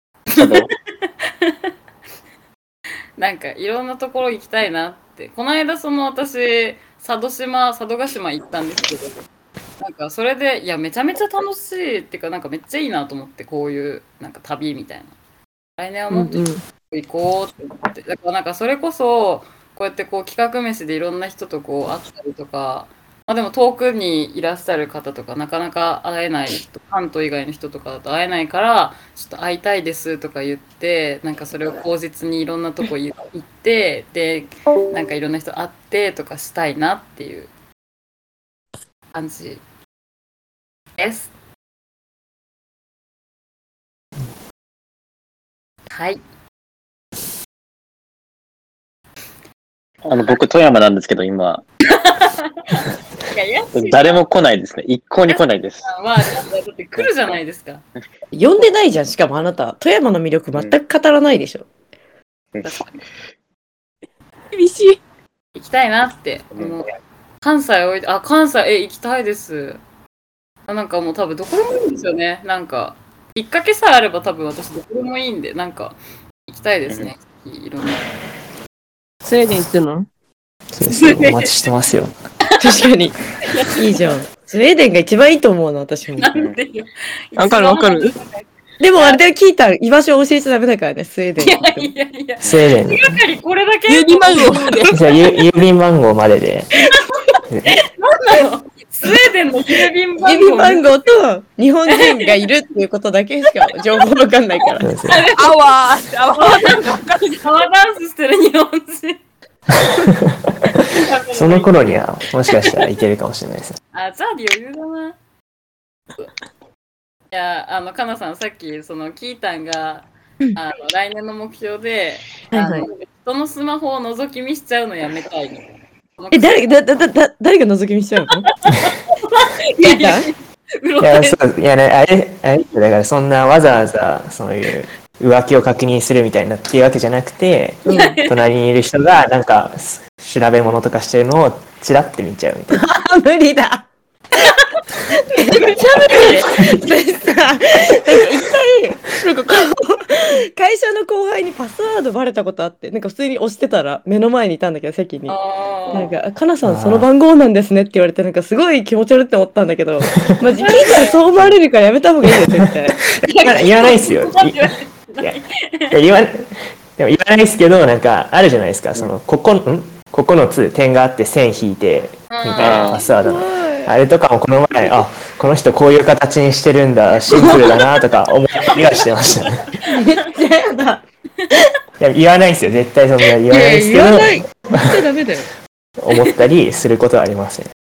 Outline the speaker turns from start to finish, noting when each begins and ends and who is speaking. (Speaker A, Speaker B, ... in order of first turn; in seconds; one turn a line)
Speaker A: 0.3-0.7
Speaker B: 3.2-9.2
Speaker B: 9.8-15.1
Speaker B: 15.8-37.5
Speaker C: 16.1-16.6
Speaker B: 39.1-39.6
Speaker B: 41.0-41.3
Speaker B: 45.9-46.2
Speaker A: 50.0-51.6
Speaker B: 51.9-54.2
Speaker A: 53.7-55.9
Speaker B: 55.3-57.8
Speaker D: 58.3-61.7
Speaker B: 62.6-63.0
Speaker C: 64.5-65.0
Speaker B: 65.5-69.8
Speaker B: 70.7-76.0
Speaker B: 76.5-78.1
Speaker C: 79.2-80.1
Speaker E: 80.7-82.1
Speaker B: 80.8-81.5
Speaker B: 82.5-82.7
Speaker D: 82.6-83.2
Speaker B: 83.4-84.0
Speaker D: 83.8-86.3
Speaker B: 86.2-89.2
Speaker C: 87.4-88.1
Speaker D: 88.8-91.9
Speaker B: 91.4-95.3
Speaker E: 92.4-93.2
Speaker C: 93.9-95.0
Speaker E: 94.9-96.8
Speaker B: 96.9-101.1
Speaker D: 100.2-105.0
Speaker B: 101.9-102.3
Speaker B: 104.7-105.6
Speaker E: 104.8-105.3
Speaker C: 105.4-107.3
Speaker B: 106.3-109.2
Speaker E: 110.0-110.4
Speaker B: 110.9-112.0
Speaker E: 111.3-113.8
Speaker B: 113.9-115.2
Speaker B: 117.3-126.8
Speaker D: 122.5-122.9
Speaker D: 126.3-128.5
Speaker B: 128.5-131.4
Speaker D: 129.8-130.3
Speaker E: 131.0-142.8
Speaker D: 137.9-138.2
Speaker B: 137.9-138.3
Speaker D: 142.7-143.9
Speaker D: 145.3-155.4
Speaker B: 145.5-146.7
Speaker B: 155.3-156.2
Speaker D: 155.9-163.0
Speaker E: 156.6-157.1
Speaker B: 160.5-161.2
Speaker E: 162.5-162.8
Speaker B: 163.3-165.9
Speaker E: 163.3-164.6
Speaker E: 165.9-179.6
Speaker B: 172.3-173.1
Speaker A: 172.6-173.0
Speaker D: 173.1-173.9
Speaker D: 179.9-181.0
Speaker B: 179.9-180.2
Speaker E: 182.0-184.9
Speaker D: 183.5-185.5
Speaker E: 186.0-187.7